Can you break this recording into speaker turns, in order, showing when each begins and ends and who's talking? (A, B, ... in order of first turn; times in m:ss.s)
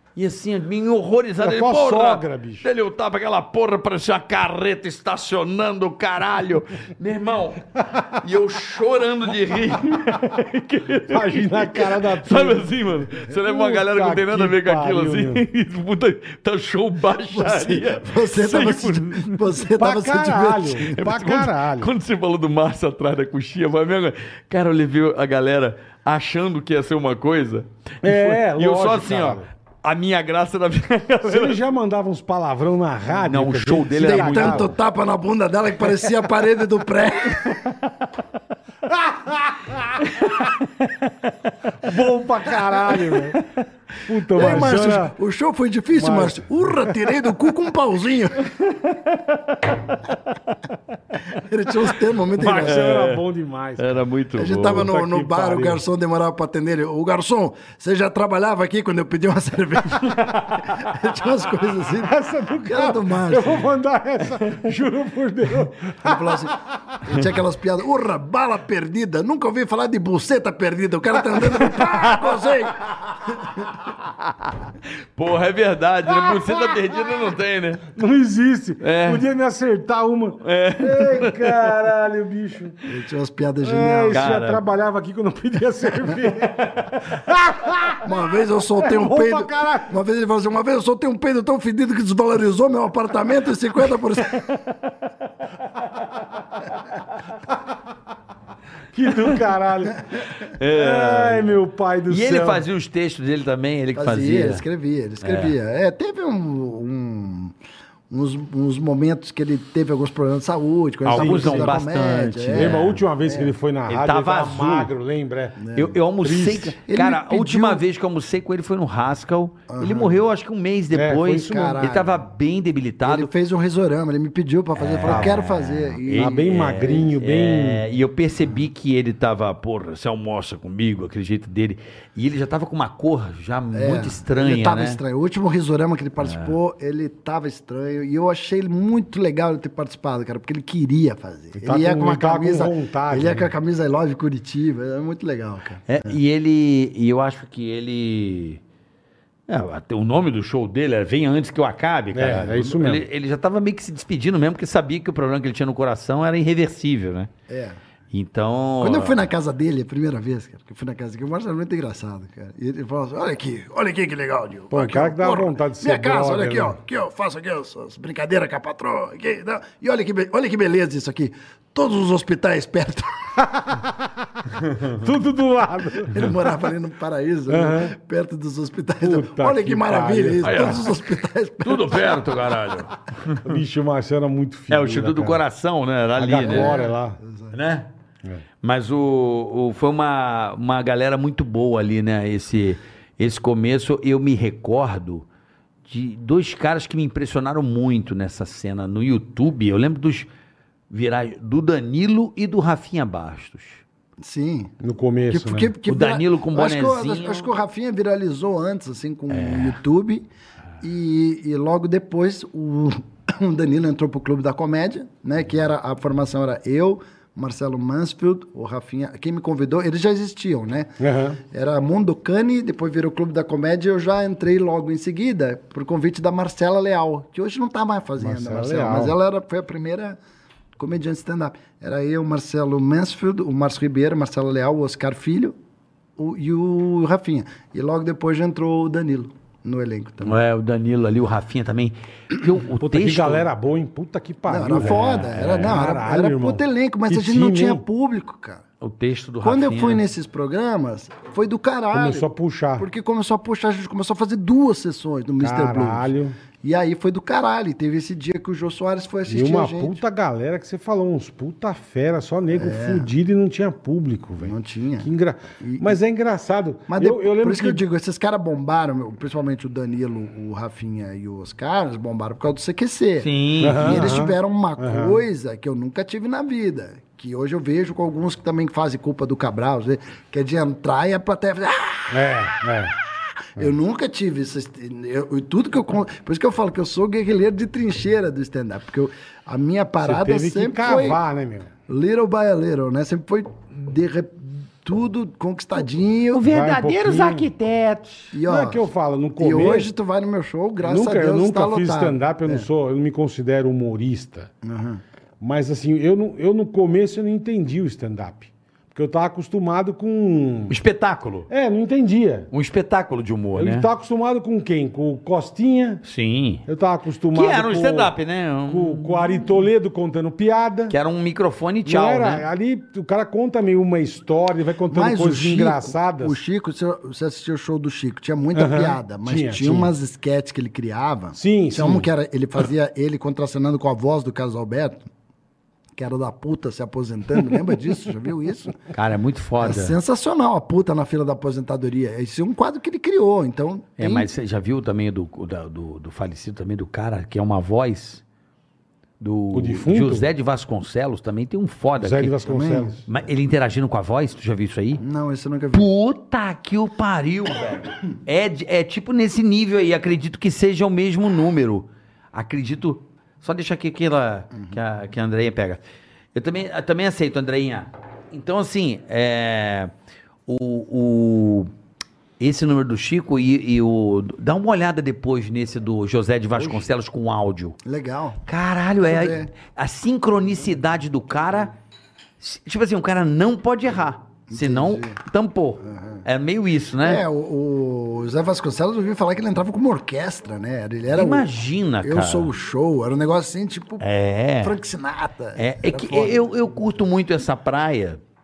0:00.1-0:19.4 A
0:01.4-0:02.7 B
0:11.1-0:15.4 B
0:17.3-0:20.9 C
0:19.7-0:21.9 B
0:20.9-0:31.6 A
0:28.0-0:29.5 B
0:31.2-0:34.7 B
0:33.2-0:34.7 A
0:34.0-0:37.7 C
0:38.9-0:40.0 B
0:40.0-0:41.1 A
0:41.8-0:43.4 B
0:43.1-0:43.4 A
0:44.0-0:45.2 B
0:44.3-0:48.4 C
0:45.9-0:46.9 B
0:48.5-0:49.7 A
0:50.2-0:50.6 A
0:51.3-0:52.8 C
0:52.4-0:53.9 B
0:52.5-0:53.2 A
0:53.8-0:54.9 A
0:54.4-1:03.6 C
0:54.7-0:55.8 B
1:00.0-1:00.8 A
1:01.9-1:06.5 B
1:06.0-1:13.7 C
1:11.5-1:12.4 A
1:14.0-1:17.9 A
1:16.2-1:16.8 B
1:17.9-1:22.8 B
1:18.8-1:19.2 A
1:20.4-1:21.7 A
1:22.8-1:24.3 C
1:23.6-1:29.9 B
1:24.1-1:24.6 A
1:26.6-1:26.9 A
1:28.0-1:34.5 C
1:38.9-1:40.0 B
1:40.6-1:44.6 A
1:40.6-1:42.6 B
1:43.9-1:47.5 C
1:45.2-1:45.5 A
1:48.1-1:53.5 C
1:51.0-1:53.0 A
1:51.1-1:51.8 B
1:52.5-1:55.6 B
1:53.9-1:54.9 A
1:55.6-1:56.0 C
1:55.7-2:03.3 A
1:56.2-1:56.7 B
1:56.8-1:57.8 C
1:59.7-2:00.2 C
2:00.9-2:01.8 B
2:01.4-2:02.2 C
2:03.0-2:06.4 C
2:04.8-2:15.0 A
2:05.0-2:05.4 B
2:06.1-2:07.8 B
2:13.7-2:26.2 C
2:16.2-2:16.5 A
2:21.5-2:23.5 B
2:25.9-2:28.6 A
2:29.5-2:37.3 A
2:32.1-2:33.0 B
2:37.5-2:37.8 C
2:38.1-2:39.2 A
2:38.8-2:53.1 C
2:44.7-2:46.8 B
2:54.8-2:56.4 B
2:56.1-3:02.2 C
2:57.5-2:57.9 B
2:59.0-3:00.8 B
3:00.4-3:00.9 A
3:01.6-3:03.4 A
3:03.4-3:05.4 B
3:04.7-3:06.7 A
3:06.2-3:07.2 B
3:06.4-3:07.5 C
3:07.5-3:07.9 A
3:08.6-3:15.2 A
3:15.9-3:20.3 A
3:20.9-3:23.8 A
3:24.2-3:24.7 C
3:24.8-3:25.7 B
3:25.3-3:30.3 C
3:25.8-3:27.5 A
3:29.3-3:29.8 A
3:30.8-3:50.2 C
3:41.0-3:41.4 B
3:48.2-3:49.2 B
3:50.8-3:55.6 C
3:56.2-4:00.4 C
4:00.2-4:03.4 A
4:02.8-4:07.8 B
4:04.5-4:08.6 C
4:04.7-4:05.8 A
4:08.8-4:10.0 A
4:09.4-4:12.2 C
4:11.9-4:12.9 B
4:12.8-4:16.1 C
4:15.4-4:16.4 B
4:16.6-4:20.0 C
4:19.3-4:27.8 B
4:22.5-4:23.1 C
4:24.4-4:25.1 C
4:25.6-4:26.0 C
4:26.9-4:42.4 C
4:33.2-4:34.0 A
4:33.6-4:35.2 B
4:42.1-4:42.9 B
4:43.6-4:51.2 C
4:50.0-4:51.7 B
4:51.9-4:56.4 C
4:56.3-4:58.3 A
4:56.4-4:57.5 B
4:58.3-4:58.8 C
4:58.4-4:59.9 B
4:59.4-5:02.7 C
5:00.8-5:04.5 B
5:04.6-5:05.0 C
5:05.4-5:10.7 B
5:10.7-5:11.5 A
5:11.5-5:12.5 B
5:12.5-5:13.9 A
5:13.5-5:16.0 B
5:16.0-5:16.6 A
5:16.6-5:18.1 B
5:17.3-5:19.6 A
5:18.7-5:20.9 B
5:20.9-5:22.4 A
5:21.8-5:26.4 B
5:24.9-5:35.1 C
5:28.5-5:29.9 B
5:31.3-5:32.1 B
5:36.0-5:38.8 C
5:38.9-5:40.0 A
5:39.6-5:44.3 C
5:44.0-5:48.2 A
5:49.2-5:52.4 A
5:49.5-5:50.3 B
5:52.0-5:53.0 B
5:52.4-5:52.9 C
5:53.0-5:55.0 A
5:55.0-5:55.9 C
5:55.7-6:05.8 A
6:06.3-6:09.9 A
6:10.5-6:11.7 A
6:12.4-6:17.8 A
6:17.8-6:18.4 C
6:18.4-6:21.7 A
6:19.0-6:19.5 C
6:22.4-6:27.2 A
6:24.5-6:25.2 C
6:25.8-6:26.2 C
6:27.0-6:31.5 C
6:31.1-6:32.5 A
6:32.0-6:34.0 C
6:34.0-6:34.8 A
6:34.6-6:36.8 C
6:35.6-6:38.2 A